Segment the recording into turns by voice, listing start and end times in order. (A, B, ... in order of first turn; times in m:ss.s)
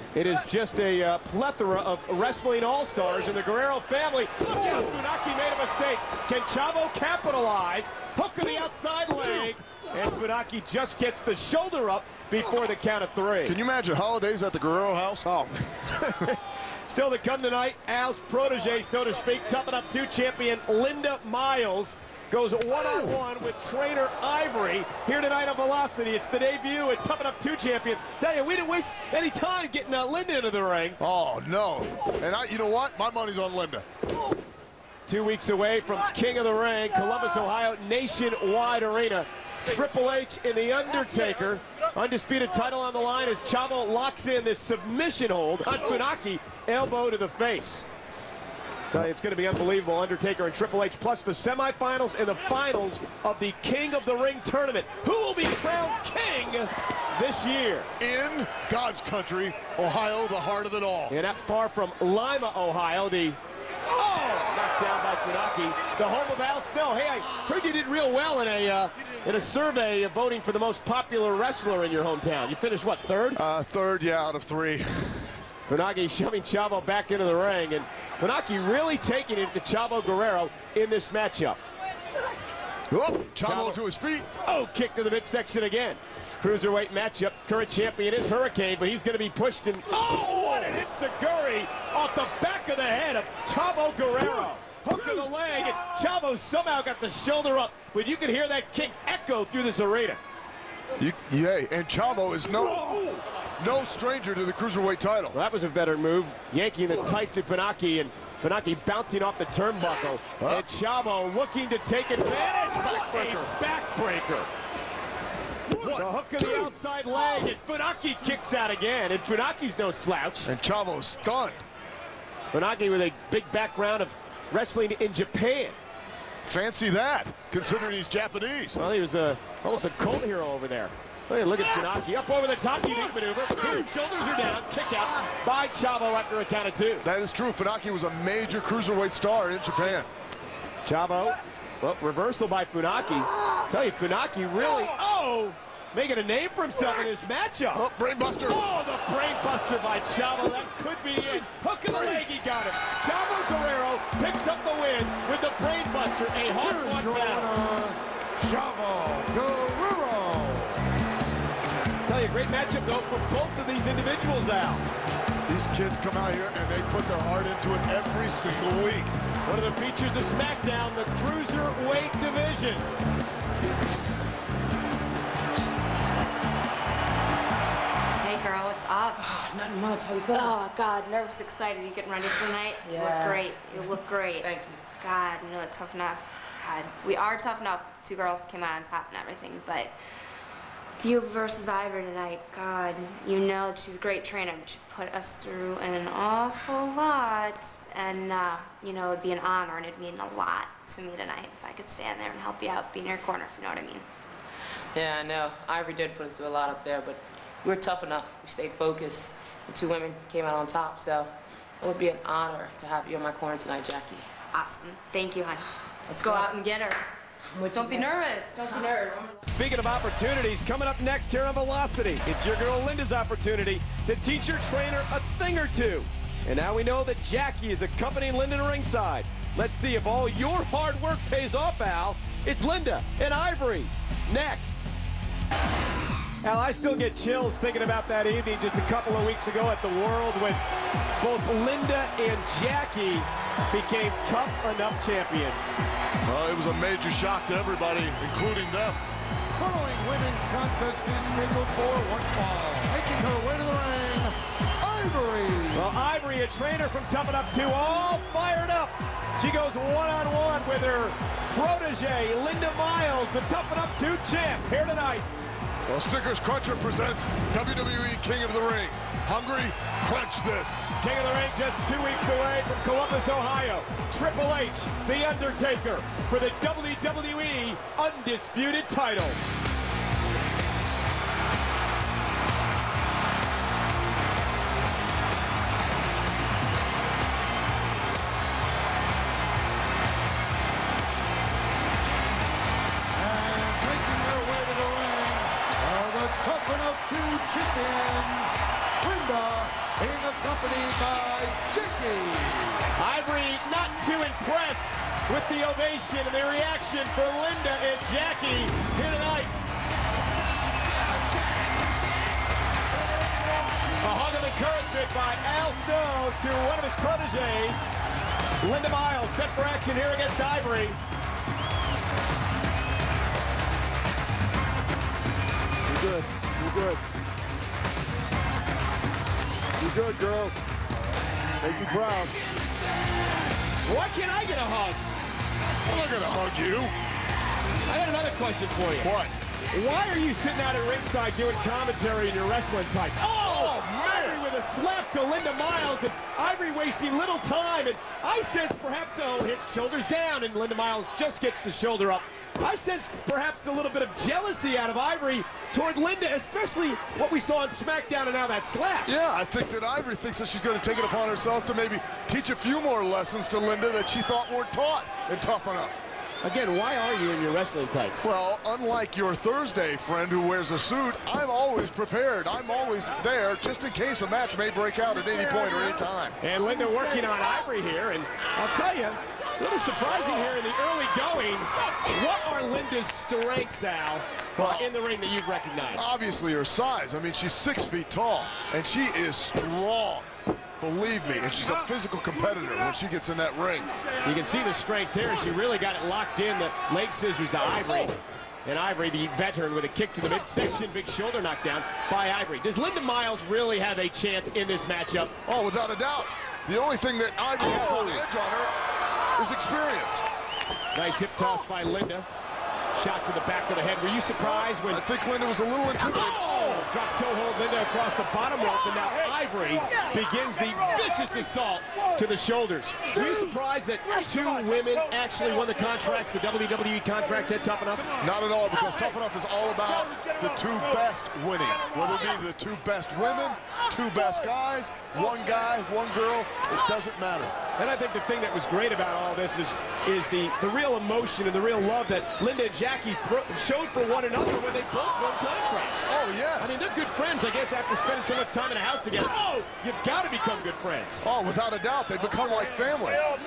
0:00.2-0:13.6 A
0:04.5-0:05.0 B
0:13.4-0:15.3 B
0:15.2-0:31.0 A
0:22.8-0:23.1 B
0:31.0-0:33.8 B
0:35.1-0:47.9 A
0:48.9-0:57.9 A
0:58.0-1:01.2 B
1:01.1-1:03.4 A
1:03.9-1:13.4 A
1:13.4-1:15.4 B
1:15.7-1:21.6 A
1:22.9-1:24.3 B
1:23.4-1:23.8 A
1:24.4-1:40.2 A
1:41.0-1:45.4 B
1:45.3-1:54.5 A
1:50.4-1:50.7 B
1:52.7-1:53.5 B
1:55.8-1:56.8 B
1:55.8-2:00.5 A
2:00.4-2:01.6 B
2:02.5-2:05.8 A
2:06.4-2:08.8 B
2:08.8-2:17.0 A
2:17.0-2:20.1 B
2:20.8-2:27.8 A
2:27.7-2:28.6 B
2:28.4-2:37.5 A
2:31.9-2:32.2 B
2:36.6-2:40.8 C
2:42.1-2:44.8 A
2:45.5-2:49.1 B
2:49.4-2:52.8 A
2:58.2-2:59.3 D
2:59.2-3:00.6 E
3:00.3-3:10.0 D
3:02.8-3:04.8 E
3:11.0-3:24.0 D
3:24.9-3:34.3 E
3:34.5-3:37.0 D
3:36.1-3:36.6 E
3:37.5-3:38.1 E
3:37.7-3:39.3 D
3:38.6-3:39.0 E
3:39.4-3:54.8 A
3:56.4-4:00.6 A
4:01.2-4:05.8 A
4:06.2-4:09.0 B
4:09.6-4:15.9 C
4:15.7-4:25.2 A
4:25.9-4:30.9 B
4:31.0-4:39.4 A
4:53.1-5:02.9 C
5:03.0-5:09.5 A
5:14.0-5:18.0 A
5:18.6-5:21.0 A
5:25.8-5:27.0 B
5:29.8-5:30.6 B
5:31.6-5:32.3 B
5:31.7-5:32.3 A
5:33.8-5:35.0 A
5:35.8-5:36.9 B
5:37.9-5:39.1 A
5:39.0-5:39.4 B
5:39.7-5:59.1 A
5:43.4-5:44.4 B
5:59.0-6:06.0 B
6:06.4-6:08.3 A
6:08.2-6:16.4 B
6:16.4-6:26.1 A
6:20.1-6:20.6 B
6:24.6-6:24.9 B
6:26.0-6:30.3 B
6:30.8-6:34.0 B
6:34.2-6:45.4 A
6:37.8-6:38.2 B
6:45.4-6:48.7 B
6:47.7-6:48.2 A
6:49.4-6:50.2 B
6:51.0-6:52.3 A
6:52.9-6:55.0 A
6:54.6-6:56.8 B
6:56.0-7:08.2 A
7:08.2-7:17.5 B
7:17.8-7:31.3 A
7:26.1-7:26.8 B
7:31.2-7:33.2 B